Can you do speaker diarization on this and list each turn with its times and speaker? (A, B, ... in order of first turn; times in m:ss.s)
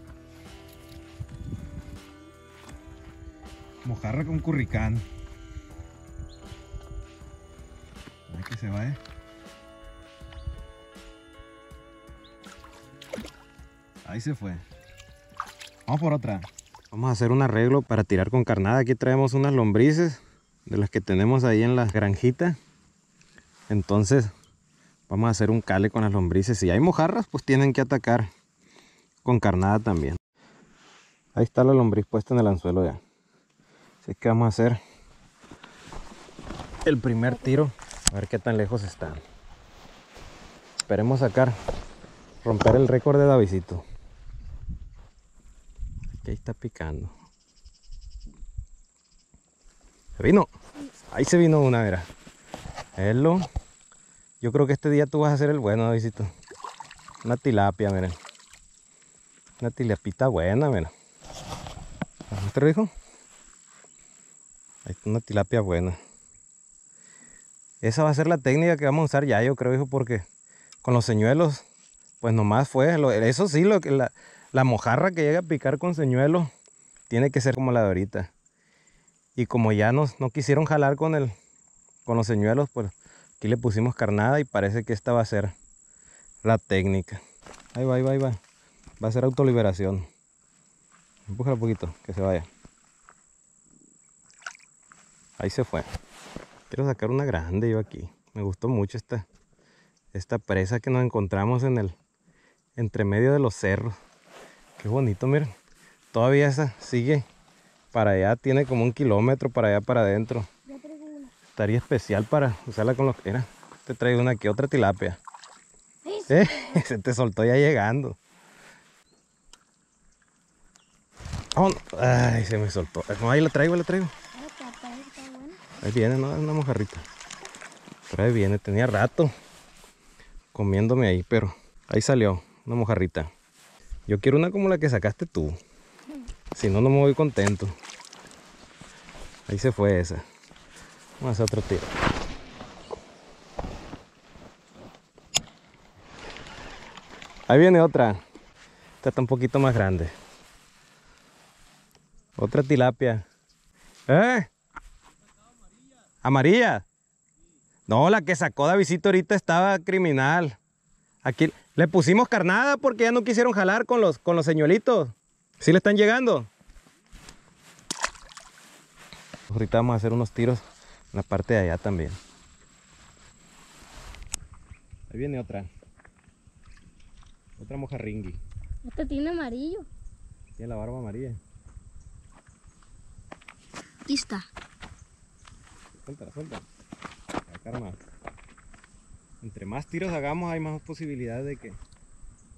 0:03.8-0:05.0 A
0:08.3-0:09.0 A
0:14.0-0:14.6 A
0:15.9-0:22.6 A
0:23.7-0:24.3 A
0:25.1-0:28.3 A
0:29.2-0:30.2 A
0:31.4-0:33.0 A
0:34.0-0:34.8 A
0:36.8-0:39.2 A
0:40.9-0:41.5 A
0:42.4-0:43.8 A
0:46.1-0:47.1 A
0:50.2-0:50.5 A
0:51.1-0:52.1 A
0:53.0-0:53.4 A
0:54.4-0:56.3 A
0:57.2-0:58.2 A
0:59.6-1:00.9 A
1:02.3-1:02.9 A
1:04.8-1:06.0 A
1:07.8-1:10.2 A
1:10.8-1:11.6 A
1:12.2-1:16.5 A
1:17.1-1:18.3 A
1:19.4-1:21.3 A
1:22.1-1:25.5 A
1:26.4-1:27.2 A
1:27.7-1:28.4 A
1:29.0-1:30.1 A
1:31.3-1:32.5 A
1:35.4-1:35.9 A
1:36.7-1:39.2 A
1:40.1-1:41.9 A
1:42.8-1:43.9 A
1:44.8-1:45.5 A
1:46.1-1:47.2 A
1:47.9-1:50.5 A
1:50.7-1:51.3 B
1:51.6-1:55.2 A
1:56.0-1:56.8 B
1:56.3-1:58.2 A
2:01.6-2:04.1 A
2:04.3-2:05.6 B
2:05.8-2:07.0 A
2:08.1-2:09.3 A
2:10.5-2:13.3 A
2:14.1-2:15.6 A
2:16.6-2:17.7 A
2:19.5-2:20.2 A
2:21.2-2:21.9 A
2:27.5-2:28.2 A
2:29.0-2:30.1 A
2:32.4-2:33.2 A
2:34.1-2:34.5 A
2:36.2-2:36.8 A
2:37.9-2:40.6 A
2:41.2-2:46.5 A
2:49.5-2:52.2 A
2:55.1-2:55.7 A
2:57.6-2:58.4 A
2:58.8-2:59.9 B
3:00.6-3:01.4 A
3:04.1-3:04.5 B
3:06.1-3:06.6 A
3:07.5-3:08.0 A
3:09.4-3:11.8 A